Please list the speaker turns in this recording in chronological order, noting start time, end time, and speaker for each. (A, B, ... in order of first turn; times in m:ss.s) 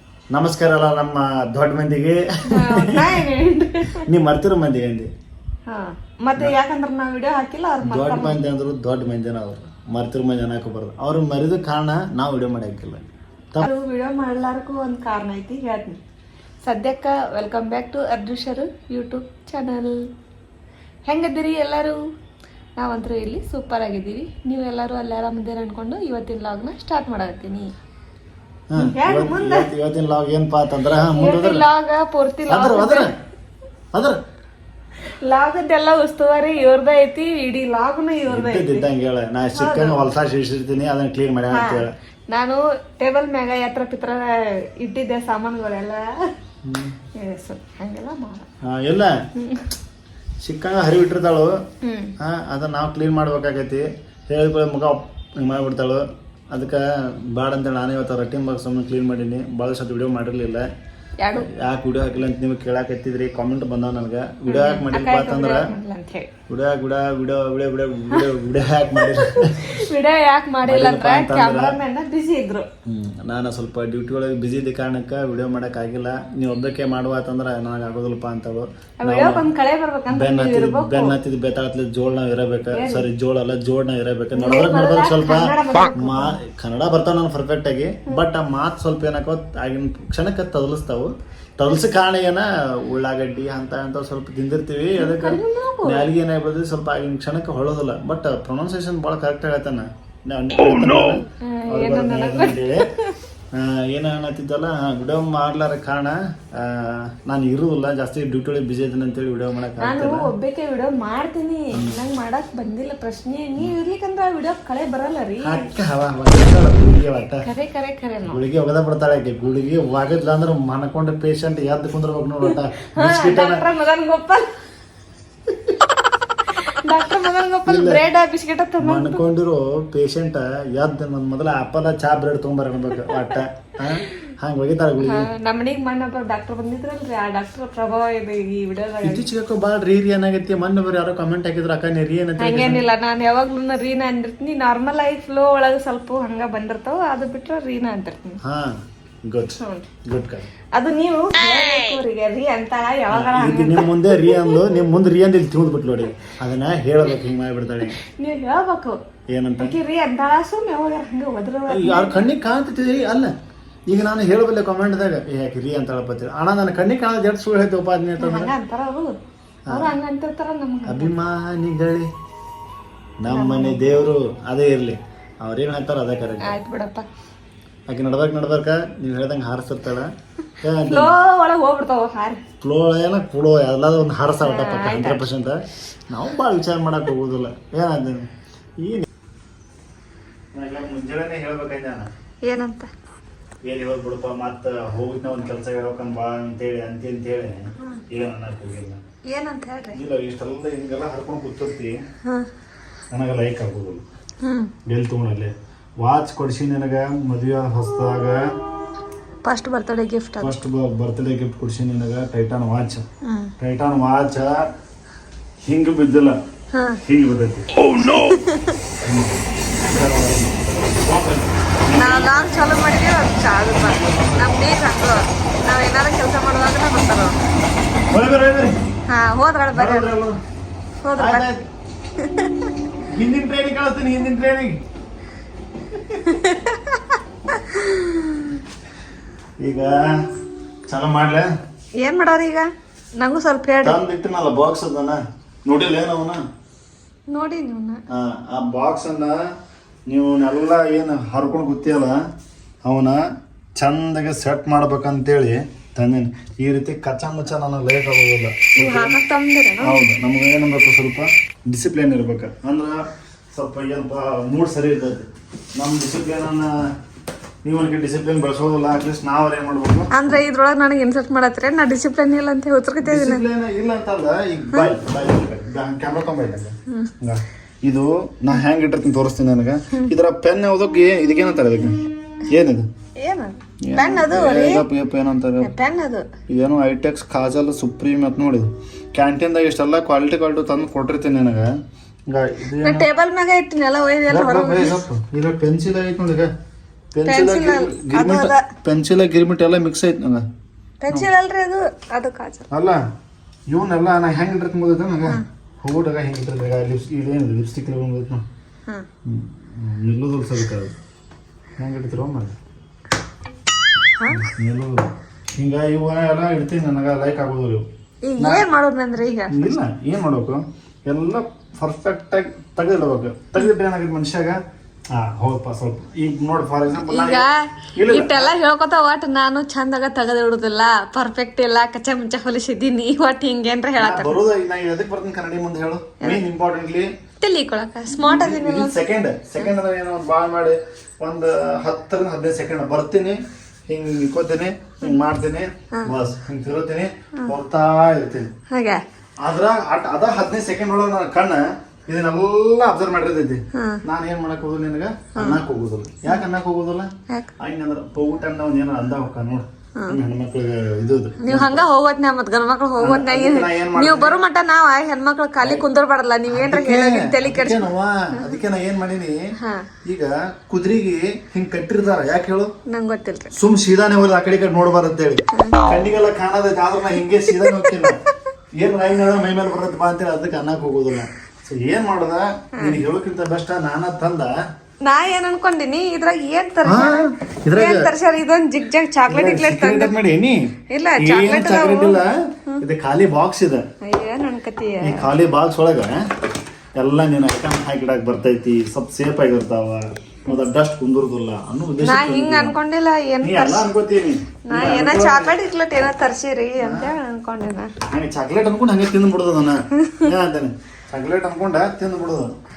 0:00.3-0:03.3 A
0:02.5-0:04.1 B
0:04.0-0:05.1 A
0:05.7-0:08.4 B
0:07.8-0:13.7 A
0:13.6-0:16.0 B
0:16.6-0:20.1 B
0:21.1-0:22.0 B
0:22.8-0:27.7 B
0:28.7-0:31.7 A
0:28.8-0:29.7 B
0:31.1-0:33.2 B
0:32.5-0:33.1 A
0:33.9-0:34.2 A
0:35.1-0:38.9 B
0:38.3-0:41.9 A
0:39.5-0:40.0 B
0:41.5-0:46.3 B
0:46.6-0:47.0 A
0:47.2-0:48.5 B
0:48.6-0:49.2 A
0:49.4-0:49.7 B
0:50.4-0:51.6 A
0:51.8-0:52.2 B
0:52.2-1:00.7 A
1:01.2-1:01.5 B
1:01.4-1:05.7 A
1:04.5-1:06.3 B
1:06.5-1:09.8 A
1:09.0-1:12.7 B
1:10.7-1:11.8 A
1:12.8-1:19.5 A
1:19.0-1:21.2 B
1:20.1-1:42.9 A
1:22.7-1:23.1 B
1:24.4-1:26.4 B
1:35.0-1:36.1 B
1:41.4-1:43.2 B
1:43.5-1:50.3 A
1:49.8-1:55.7 B
1:55.4-1:57.5 A
1:57.4-1:58.4 B
1:58.3-2:03.6 A
2:02.4-2:04.5 B
2:06.5-2:09.2 B
2:07.7-2:08.0 A
2:08.8-2:15.3 A
2:13.0-2:14.2 B
2:15.0-2:19.2 B
2:19.0-2:22.8 A
2:22.4-2:28.4 B
2:28.4-2:30.5 A
2:29.6-2:29.9 B
2:30.7-2:34.6 B
2:33.1-2:38.0 A
2:38.0-2:39.0 B
2:39.3-2:39.8 A
2:39.6-2:42.2 B
2:41.7-2:43.3 A
2:43.9-2:48.6 A
2:48.2-2:49.2 B
2:49.7-2:50.0 A
2:49.7-2:51.1 B
2:50.9-2:52.1 A
2:53.2-2:56.6 A
2:53.3-2:54.1 B
2:56.4-2:57.1 B
2:57.9-3:01.1 A
3:00.8-3:02.4 B
3:02.6-3:08.3 A
3:04.4-3:05.3 B
3:08.8-3:09.1 A
3:10.5-3:12.1 A
3:12.4-3:12.9 B
3:13.6-3:19.0 A
3:19.3-3:20.0 B
3:19.9-3:22.0 A
3:23.1-3:24.0 A
3:24.4-3:24.7 B
3:24.9-3:28.5 A
3:29.4-3:30.6 B
3:30.4-3:33.0 A
3:33.2-3:33.5 B
3:33.6-3:34.7 A
3:35.6-3:36.4 A
3:36.7-3:37.0 B
3:37.0-3:37.9 A
3:38.1-3:38.8 B
3:39.0-3:42.7 A
3:42.0-3:47.4 B
3:43.7-3:44.6 A
3:48.1-3:48.8 A
3:49.1-3:50.1 B
3:49.7-3:50.4 A
3:51.0-3:51.5 B
3:51.2-3:51.6 A
3:52.2-3:52.7 B
3:53.1-3:54.8 A
3:55.9-3:56.2 A
3:56.2-3:58.6 B
3:59.6-4:00.1 A
4:00.9-4:01.5 A
4:02.0-4:04.0 B
4:03.8-4:06.4 A
4:07.3-4:08.0 B
4:08.1-4:09.4 A
4:10.1-4:12.2 A
4:12.8-4:13.2 A
4:13.8-4:19.2 A
4:18.8-4:20.0 B
4:19.8-4:26.8 A
4:27.6-4:30.4 A
4:30.1-4:33.4 B
4:33.0-4:42.9 A
4:43.2-4:44.9 B
4:43.8-4:45.7 A
4:45.6-4:46.3 B
4:46.5-4:51.7 A
4:52.3-4:53.1 A
4:52.8-4:55.0 B
4:54.3-4:56.5 A
4:57.1-5:00.5 A
4:57.2-4:58.7 B
5:01.0-5:02.7 B
5:02.7-5:03.0 A
5:03.7-5:08.4 A
5:09.2-5:10.9 A
5:11.8-5:12.6 A
5:14.2-5:14.5 B
5:14.3-5:17.9 A
5:18.2-5:19.6 B
5:18.4-5:18.7 A
5:19.5-5:24.6 A
5:25.1-5:28.5 A
5:27.0-5:34.4 B
5:34.0-5:37.1 A
5:37.4-5:39.0 B
5:38.1-5:48.5 A
5:48.7-5:49.0 B
5:49.4-6:01.8 A
5:53.7-5:54.0 B
5:55.4-5:55.6 B
6:01.4-6:08.6 B
6:03.0-6:04.4 A
6:06.5-6:12.7 A
6:09.6-6:09.9 B
6:12.9-6:13.5 B
6:13.5-6:18.2 A
6:15.5-6:15.9 B
6:18.8-6:24.6 A
6:22.8-6:23.0 B
6:25.0-6:30.1 B
6:26.8-6:28.1 A
6:29.3-6:33.9 A
6:30.9-6:32.8 B
6:34.0-6:35.3 B
6:35.0-6:36.3 A
6:37.0-6:42.8 A
6:42.0-6:43.9 B
6:43.4-6:45.5 A
6:44.7-6:47.9 B
6:46.8-6:47.1 A
6:48.1-6:52.5 A
6:50.0-6:50.3 B